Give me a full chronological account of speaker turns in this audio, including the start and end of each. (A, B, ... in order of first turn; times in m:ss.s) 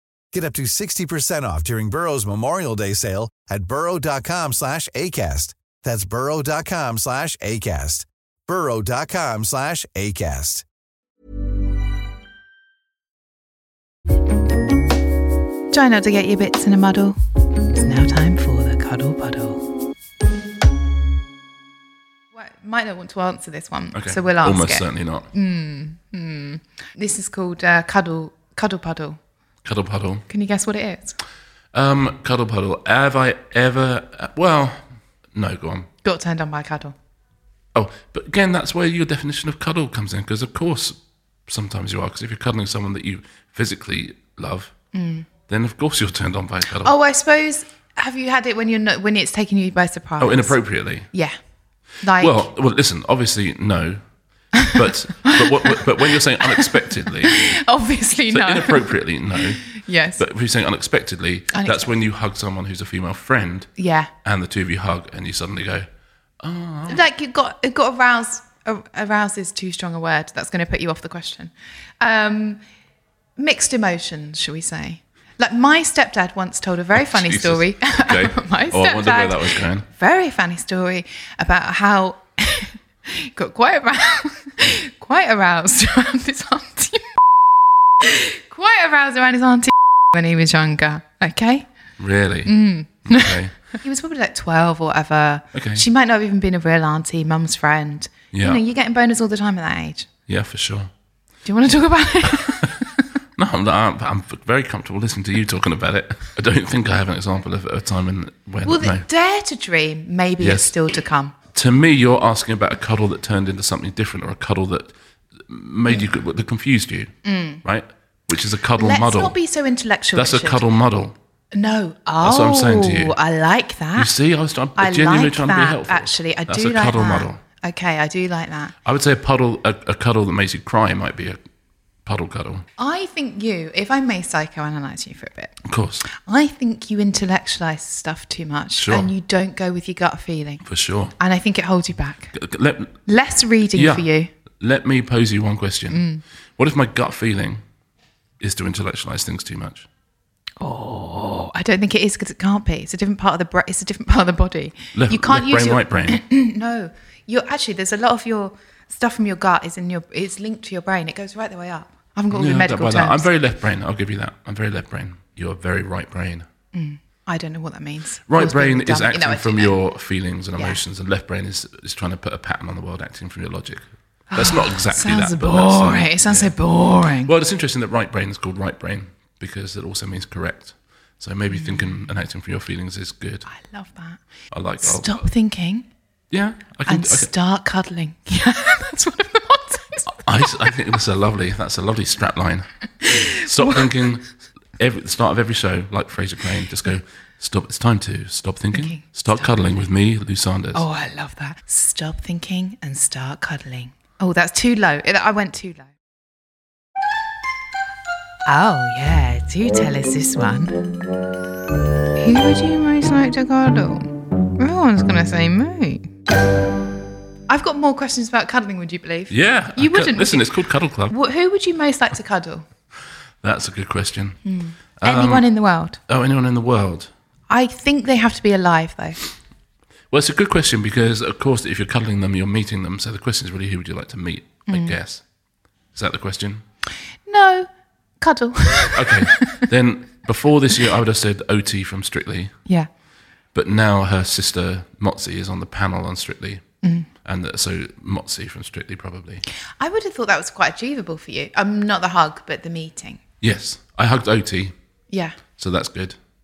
0:00.3-0:10.6 A
0:15.7-0:17.2 B
0:17.7-0:19.6 B
0:22.3-0:29.2 B
0:23.9-0:25.3 C
0:29.6-0:30.3 C
0:30.3-0:31.2 B
0:31.7-0:35.9 C
0:36.0-0:37.0 B
0:37.8-0:41.0 C
0:41.5-0:44.7 C
0:44.9-0:45.3 B
0:45.5-0:47.0 C
0:46.8-0:50.6 B
0:50.2-0:51.1 C
0:52.0-0:52.5 B
0:52.2-0:54.0 C
0:54.6-0:57.5 C
0:54.8-1:00.2 B
0:58.3-1:03.7 C
1:01.5-1:01.9 B
1:03.8-1:04.1 B
1:04.2-1:05.9 C
1:06.4-1:07.0 C
1:06.9-1:12.6 B
1:13.4-1:27.1 B
1:16.9-1:19.9 C
1:28.0-1:31.7 B
1:32.0-1:33.5 C
1:32.5-1:40.1 B
1:35.5-1:35.8 C
1:38.3-1:38.6 C
1:40.3-1:40.9 C
1:41.4-1:42.9 B
1:43.4-1:49.0 C
1:48.6-1:51.3 B
1:50.4-1:50.7 C
1:51.5-1:54.9 C
1:55.5-1:59.4 C
1:57.2-1:57.6 B
1:58.8-2:00.6 B
2:00.2-2:01.2 C
2:01.5-2:04.1 B
2:02.2-2:03.2 C
2:04.0-2:07.4 C
2:04.8-2:08.8 B
2:08.8-2:11.4 C
2:12.0-2:12.6 C
2:12.8-2:20.6 B
2:15.6-2:16.1 C
2:18.8-2:19.1 C
2:20.6-2:21.2 C
2:21.2-2:22.3 B
2:22.3-2:23.0 C
2:23.1-2:24.3 B
2:23.7-2:24.1 C
2:24.6-2:26.1 C
2:25.9-2:26.2 B
2:26.6-2:27.6 C
2:28.4-2:29.9 C
2:30.6-2:43.3 B
2:34.9-2:36.2 C
2:42.3-2:46.5 C
2:46.7-2:49.7 B
2:48.3-2:56.6 C
2:54.3-2:57.3 B
2:57.2-3:03.5 C
3:01.5-3:02.0 B
3:03.5-3:04.2 B
3:04.5-3:05.3 C
3:04.8-3:05.9 B
3:06.3-3:07.3 C
3:06.9-3:10.7 B
3:10.2-3:12.7 C
3:13.0-3:13.9 B
3:13.3-3:20.8 C
3:18.7-3:19.6 B
3:20.7-3:25.9 B
3:28.5-3:30.8 B
3:32.2-3:36.1 B
3:37.5-3:40.5 B
3:39.3-3:41.2 C
3:41.1-3:42.6 B
3:43.4-3:44.4 C
3:44.4-3:46.0 B
3:45.0-3:45.5 C
3:46.1-3:47.1 C
3:47.5-3:49.2 B
3:50.1-3:55.2 C
3:54.7-3:55.0 B
3:55.9-3:56.6 C
3:57.3-3:57.7 B
3:58.2-3:59.6 B
3:58.9-4:02.6 C
4:03.5-4:06.6 C
4:07.2-4:09.4 C
4:09.8-4:13.2 B
4:13.4-4:14.7 C
4:15.1-4:15.4 B
4:15.6-4:16.2 C